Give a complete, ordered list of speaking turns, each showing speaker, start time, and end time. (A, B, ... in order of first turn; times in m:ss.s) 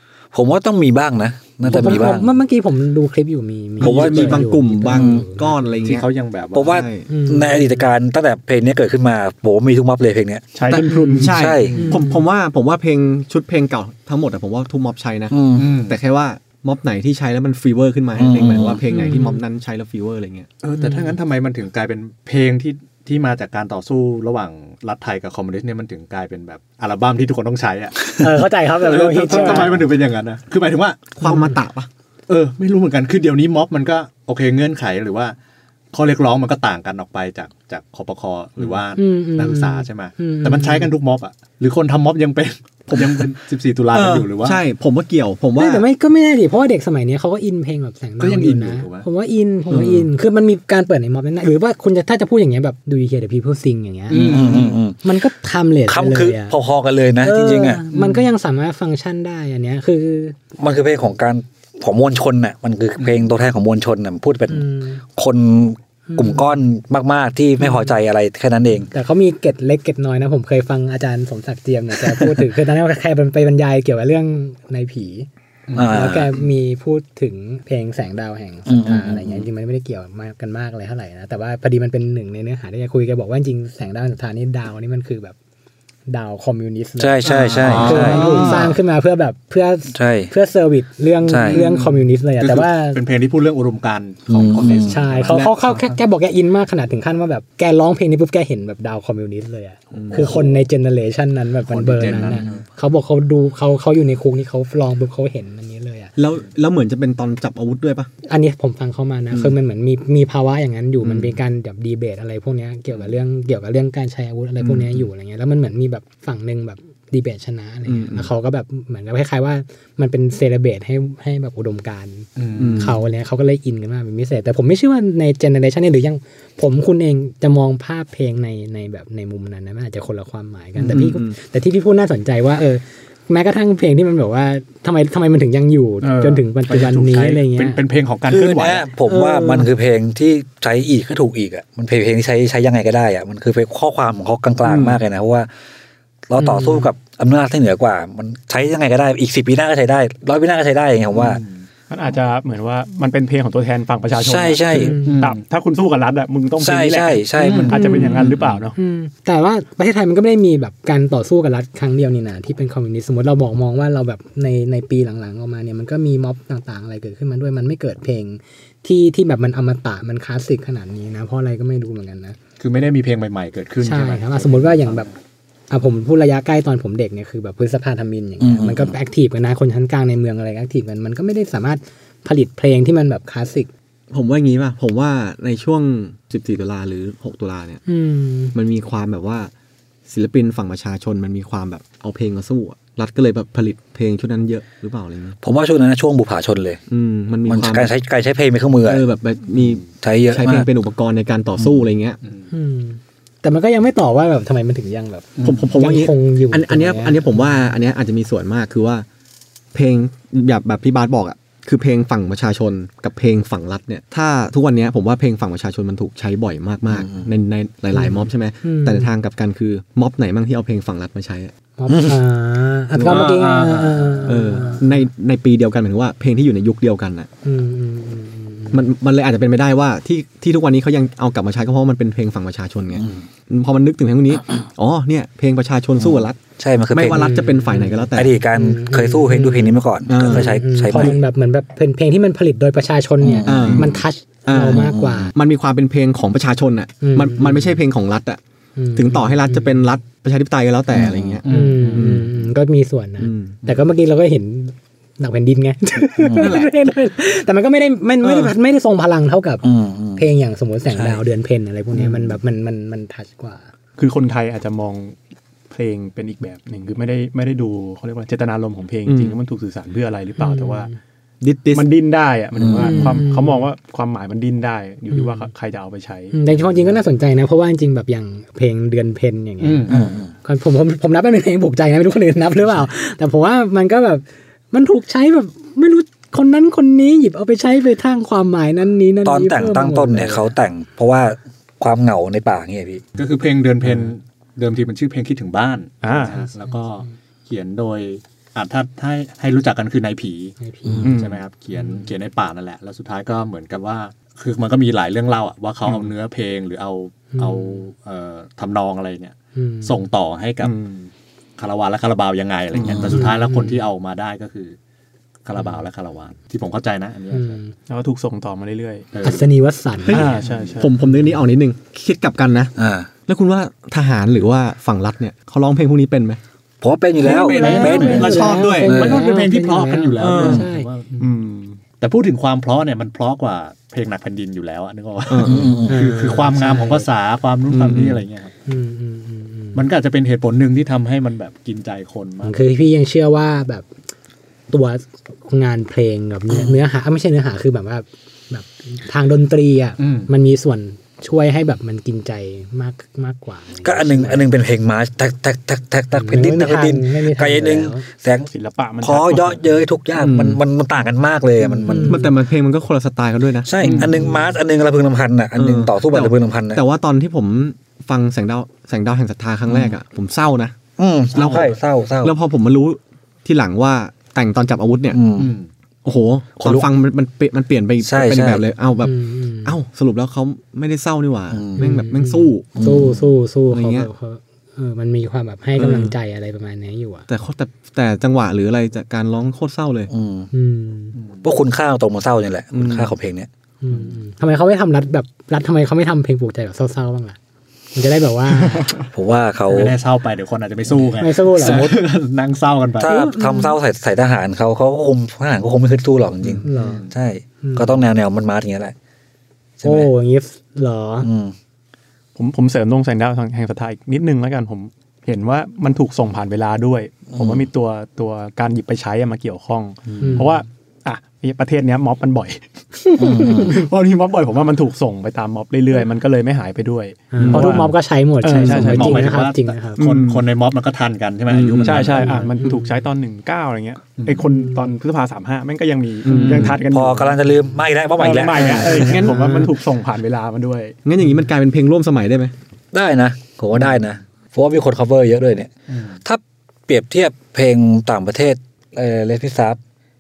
0:00.3-0:02.3 A
0:01.7-0:05.6 B
0:01.8-0:02.1 C
0:03.8-0:07.1 C
0:03.8-0:05.2 A
0:05.8-0:06.8 D
0:06.5-0:10.4 A
0:07.1-0:07.9 B
0:10.6-0:11.4 E
0:10.7-0:20.5 C
0:10.8-0:12.2 B
0:11.2-0:11.8 A
0:11.7-0:12.0 D
0:15.3-0:15.7 A
0:15.6-0:16.0 D
0:18.2-0:18.8 A
0:18.9-0:19.4 B
0:20.6-0:31.3 D
0:20.8-0:21.2 B
0:28.2-0:29.8 B
0:28.9-0:29.8 C
0:31.2-0:31.9 C
0:31.2-0:31.6 B
0:32.3-0:35.4 D
0:35.9-0:44.6 D
0:39.0-0:40.9 B
0:42.9-0:43.3 C
0:43.9-0:45.9 C
0:45.6-0:56.6 B
0:48.2-0:49.1 D
0:49.7-0:50.1 C
0:54.1-0:54.8 D
0:54.1-0:55.0 A
0:55.9-0:57.8 A
0:57.2-1:00.4 B
0:58.0-0:58.2 D
1:00.6-1:08.9 A
1:03.0-1:03.3 D
1:04.5-1:05.0 B
1:06.1-1:06.5 B
1:07.6-1:07.9 B
1:08.9-1:15.3 B
1:15.7-1:16.2 D
1:15.8-1:16.3 A
1:15.8-1:25.4 B
1:18.7-1:19.5 A
1:26.1-1:33.0 B
1:27.0-1:28.6 A
1:27.3-1:28.8 D
1:27.6-1:28.7 C
1:29.9-1:30.3 A
1:31.3-1:31.6 A
1:31.4-1:36.0 D
1:34.3-1:35.0 A
1:34.8-1:46.1 B
1:35.3-1:35.6 C
1:39.9-1:40.6 D
1:39.9-1:40.4 C
1:41.7-1:42.6 D
1:46.2-1:48.1 C
1:48.3-2:17.8 B
1:51.0-1:51.4 C
1:54.6-1:55.0 C
1:57.9-1:58.3 C
2:02.4-2:03.0 D
2:02.6-2:03.0 C
2:10.8-2:11.4 C
2:16.0-2:18.9 D
2:18.3-2:25.5 A
2:19.0-2:19.7 B
2:24.6-2:25.0 C
2:26.3-2:31.4 A
2:26.4-2:26.9 B
2:31.1-2:31.7 D
2:31.9-2:38.8 E
2:34.2-2:35.0 A
2:34.7-2:35.2 B
2:35.0-2:35.4 D
2:36.6-2:38.1 A
2:37.4-2:38.4 D
2:37.7-2:52.4 B
2:52.6-2:55.1 D
2:53.8-2:55.1 B
2:55.7-3:03.7 B
2:58.4-2:58.9 A
3:04.1-3:07.8 C
3:07.9-3:08.6 B
3:08.5-3:09.5 C
3:10.1-3:15.4 C
3:15.4-3:16.8 A
3:16.9-3:17.9 C
3:17.5-3:19.0 A
3:18.9-3:22.2 C
3:20.0-3:20.7 A
3:22.2-3:22.5 D
3:22.5-3:27.2 B
3:25.4-3:25.8 D
3:25.4-3:29.1 C
3:29.7-3:41.5 C
3:37.0-3:37.3 A
3:37.9-3:39.1 B
3:41.8-3:44.8 B
3:41.9-3:42.2 A
3:42.9-3:43.4 C
3:43.2-3:44.1 D
3:44.2-3:47.3 C
3:47.4-3:48.8 B
3:48.7-3:56.4 C
3:53.0-3:53.2 A
3:56.0-3:57.4 A
3:56.9-3:58.4 C
3:57.1-4:05.3 B
3:58.1-4:01.2 A
4:00.1-4:01.2 C
4:03.2-4:03.9 A
4:03.5-4:08.4 C
4:03.6-4:03.8 D
4:04.5-4:05.3 A
4:07.0-4:07.8 B
4:08.8-4:09.9 B
4:09.0-4:12.3 C
4:10.9-4:11.4 A
4:11.4-4:12.3 D
4:11.5-4:23.7 B
4:13.2-4:13.6 C
4:16.2-4:16.6 A
4:16.4-4:16.7 C
4:18.2-4:18.5 C
4:19.6-4:20.2 A
4:20.9-4:21.2 A
4:22.0-4:22.4 C
4:24.0-4:25.2 E
4:25.7-4:30.9 E
4:29.1-4:29.4 C
4:30.4-4:31.0 B
4:31.4-4:31.9 C
4:31.7-4:36.4 E
4:32.8-4:33.7 B
4:35.1-4:35.5 B
4:36.3-4:50.6 B
4:39.6-4:40.1 D
4:39.9-4:40.3 A
4:49.2-4:53.0 A
4:53.2-5:14.8 D
4:56.0-4:56.4 E
5:00.6-5:01.2 B
5:00.9-5:01.1 A
5:01.0-5:01.4 E
5:07.3-5:07.8 B
5:09.6-5:10.0 B
5:12.7-5:13.2 E
5:13.1-5:13.8 B
5:15.4-5:17.6 D
5:17.3-5:17.7 B
5:17.9-5:19.1 E
5:19.1-5:19.5 D
5:19.2-5:20.4 B
5:20.1-5:22.7 C
5:20.1-5:20.9 D
5:20.1-5:20.9 E
5:22.8-5:23.1 A
5:23.3-5:26.4 C
5:26.8-5:28.3 A
5:27.2-5:30.9 B
5:27.2-5:31.3 D
5:27.3-5:29.2 C
5:28.9-5:29.2 A
5:30.2-5:30.7 C
5:31.2-5:31.8 E
5:32.0-5:38.5 D
5:35.3-5:35.8 C
5:35.4-5:36.0 A
5:35.9-5:37.1 B
5:37.7-5:38.2 C
5:38.7-5:39.8 B
5:39.7-5:42.6 D
5:42.4-5:43.9 B
5:44.7-5:54.4 B
5:50.0-5:50.3 D
5:53.8-5:58.5 A
5:56.1-5:58.0 B
5:58.5-5:59.6 E
5:59.0-6:02.3 A
6:00.2-6:00.6 C
6:01.7-6:02.3 B
6:01.9-6:04.2 C
6:03.6-6:06.8 A
6:03.8-6:04.3 D
6:05.6-6:10.8 C
6:11.0-6:12.3 A
6:11.4-6:15.2 C
6:15.1-6:15.5 A
6:15.4-6:15.7 D
6:16.0-6:22.7 C
6:16.6-6:16.9 A
6:18.0-6:18.6 A
6:19.0-6:19.8 B
6:21.5-6:21.9 A
6:21.8-6:27.3 B
6:22.8-6:23.2 A
6:23.7-6:24.1 C
6:25.8-6:26.2 C
6:27.3-6:30.1 C
6:30.1-6:30.5 A
6:30.5-6:31.2 B
6:31.2-6:31.5 D
6:31.4-6:33.5 A
6:32.7-6:33.1 C
6:33.8-6:37.4 B
6:37.9-6:39.0 B
6:39.1-6:40.0 A
6:39.7-6:43.2 D
6:41.2-6:42.0 B
6:43.0-6:49.0 A
6:43.0-6:43.8 B
6:46.4-6:47.1 D
6:46.6-6:47.0 B
6:47.6-6:48.0 B
6:49.8-6:50.1 A
6:49.8-6:51.3 B
6:51.2-6:51.5 A
6:52.4-7:02.6 E
6:57.3-6:57.7 A
7:00.1-7:00.4 A
7:00.2-7:00.6 B
7:03.1-7:03.9 B
7:03.1-7:09.4 E
7:03.2-7:03.8 A
7:07.3-7:10.0 B
7:07.4-7:07.8 C
7:08.6-7:12.5 D
7:10.0-7:10.4 E
7:11.5-7:12.2 C
7:11.8-7:17.4 E
7:12.2-7:13.0 B
7:14.2-7:14.4 D
7:14.4-7:14.9 B
7:16.2-7:16.8 C
7:16.8-7:19.1 A
7:18.2-7:21.0 E
7:18.6-7:19.6 C
7:18.9-7:19.7 B
7:21.0-7:22.5 C
7:22.9-7:25.7 A
7:25.9-7:26.2 D
7:26.2-7:29.8 A